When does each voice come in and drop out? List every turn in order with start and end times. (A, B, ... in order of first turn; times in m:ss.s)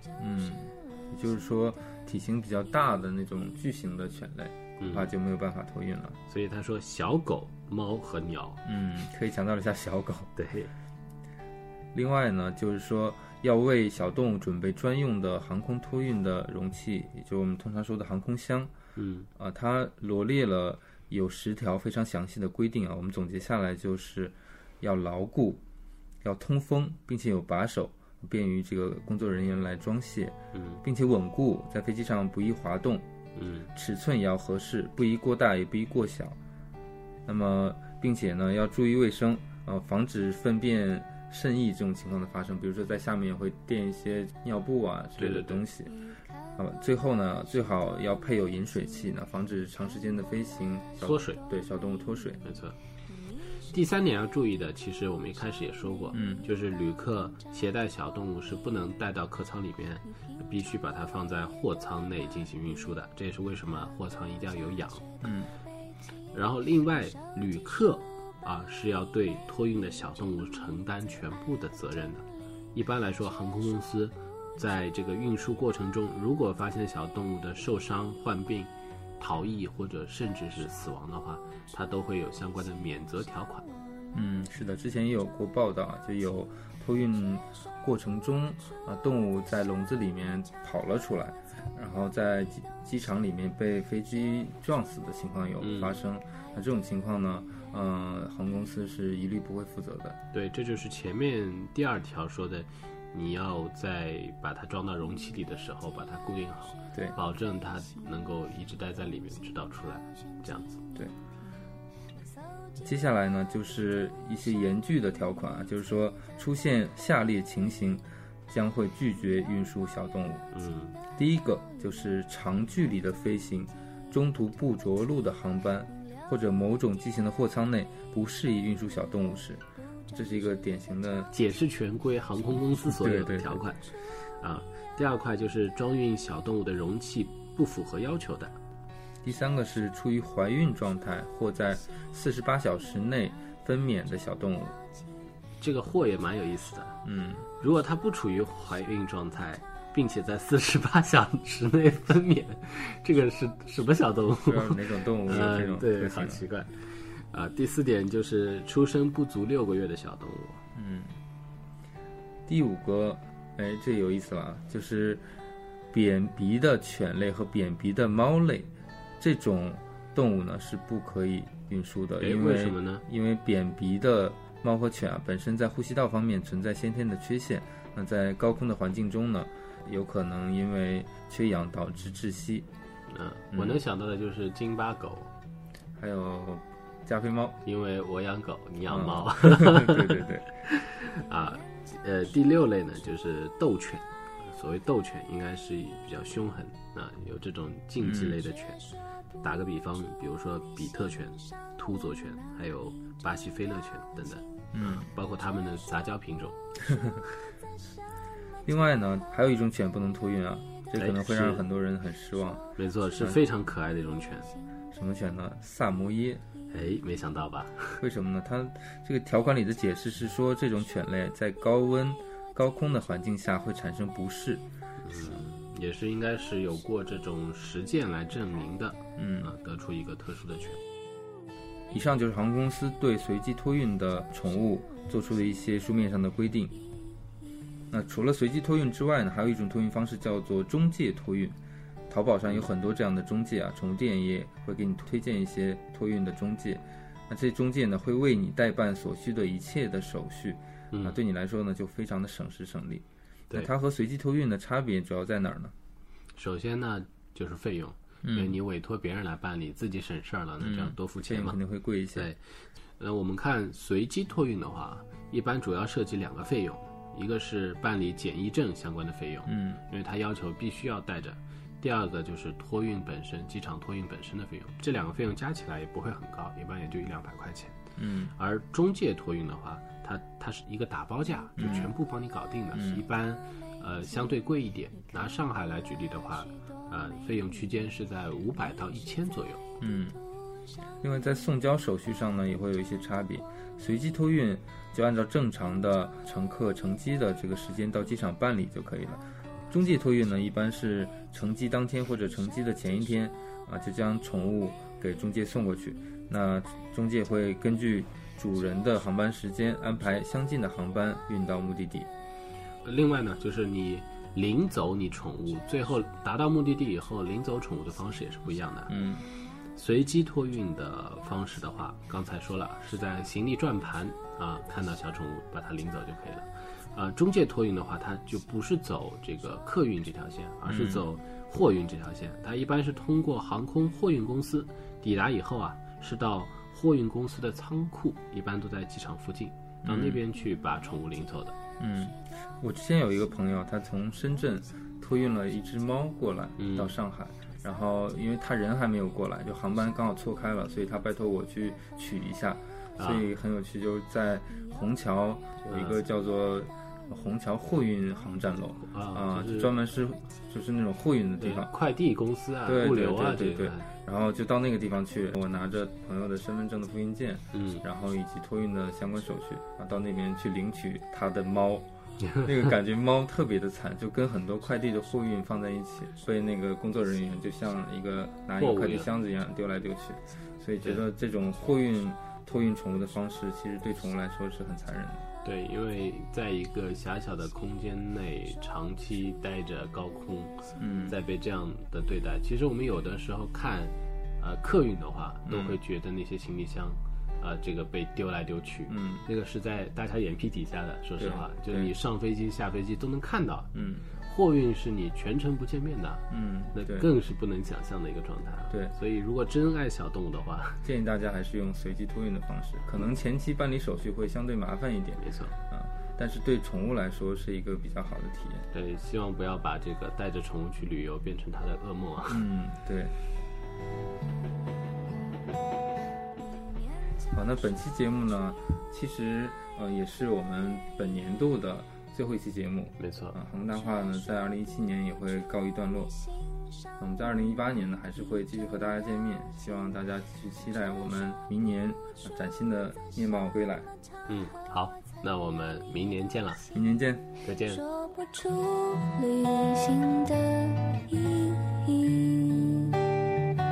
0:00.2-0:06.2 A
0:04.8-0:05.1 B
0:06.3-0:08.6 B
0:08.6-0:10.3 A
0:10.4-0:10.7 B
0:11.9-0:18.7 A
0:19.0-0:19.3 B
0:19.4-0:25.6 A
0:26.2-0:33.0 A
0:30.5-0:30.8 B
0:33.4-0:33.7 B
0:33.7-0:36.4 A
0:37.2-0:46.0 A
0:45.2-0:45.6 B
0:46.6-0:52.4 A
0:51.0-0:51.4 B
0:52.4-0:52.8 B
0:53.7-1:05.0 B
0:56.1-0:56.4 A
1:05.2-1:05.5 A
1:06.3-1:23.7 B
1:24.1-1:40.2 A
1:35.6-1:36.0 B
1:40.3-1:50.8 B
1:52.8-2:00.4 A
2:00.5-2:01.0 B
2:01.1-2:11.3 A
2:11.3-2:18.6 B
2:12.8-2:13.6 A
2:19.2-2:24.8 A
2:25.6-2:27.0 B
2:27.0-2:27.5 A
2:27.6-2:40.6 B
2:34.4-2:36.4 A
2:40.7-2:41.1 A
2:42.5-2:45.2 A
2:45.9-3:02.7 A
2:52.2-2:53.0 B
3:03.1-3:05.3 B
3:03.5-3:03.8 A
3:06.0-3:07.6 A
3:07.6-3:18.8 B
3:08.9-3:10.6 A
3:18.0-3:18.4 A
3:19.4-3:26.6 B
3:24.7-3:25.1 A
3:28.6-3:32.6 A
3:30.9-3:31.6 B
3:32.8-3:34.5 B
3:34.9-3:36.4 A
3:36.7-3:38.0 B
3:38.0-3:44.6 A
3:45.0-3:50.8 B
3:49.2-3:49.5 A
3:51.9-3:56.8 A
3:57.9-4:01.6 A
4:02.1-4:15.7 A
4:10.9-4:11.2 B
4:16.3-4:21.6 B
4:18.2-4:18.6 A
4:20.6-4:22.3 A
4:23.0-4:37.8 B
4:29.4-4:29.8 A
4:38.0-4:38.3 A
4:38.3-4:49.6 B
4:41.6-4:41.9 A
4:42.7-4:43.0 A
4:49.8-4:50.2 A
4:51.0-5:12.1 A
5:12.8-5:18.9 B
5:18.9-5:19.2 A
5:19.8-5:41.6 B
5:30.6-5:31.1 A
5:39.8-5:40.2 A
5:41.8-6:01.7 A
5:46.6-5:46.9 B
5:53.0-5:53.3 B
5:55.6-5:56.0 B
5:58.8-5:59.7 B
6:01.4-6:03.9 B
6:02.6-6:11.9 A
6:07.5-6:07.8 B
6:12.4-6:25.2 A
6:18.6-6:19.1 B
6:25.4-6:43.7 B
6:30.8-6:31.2 A
6:35.4-6:35.8 A
6:38.9-6:39.2 A
6:41.2-6:41.9 A
6:43.7-6:44.0 A
6:44.2-6:46.2 B
6:46.3-6:47.1 A
6:46.7-6:50.8 B
6:50.8-6:58.6 A
6:55.2-6:55.5 B
6:58.7-7:02.4 B
7:02.3-7:03.1 A
7:07.3-7:16.2 A
7:13.0-7:13.4 B
7:17.0-7:23.9 A
7:24.3-7:26.6 B
7:26.7-7:27.2 A
7:27.4-7:27.8 B
7:27.7-7:33.0 C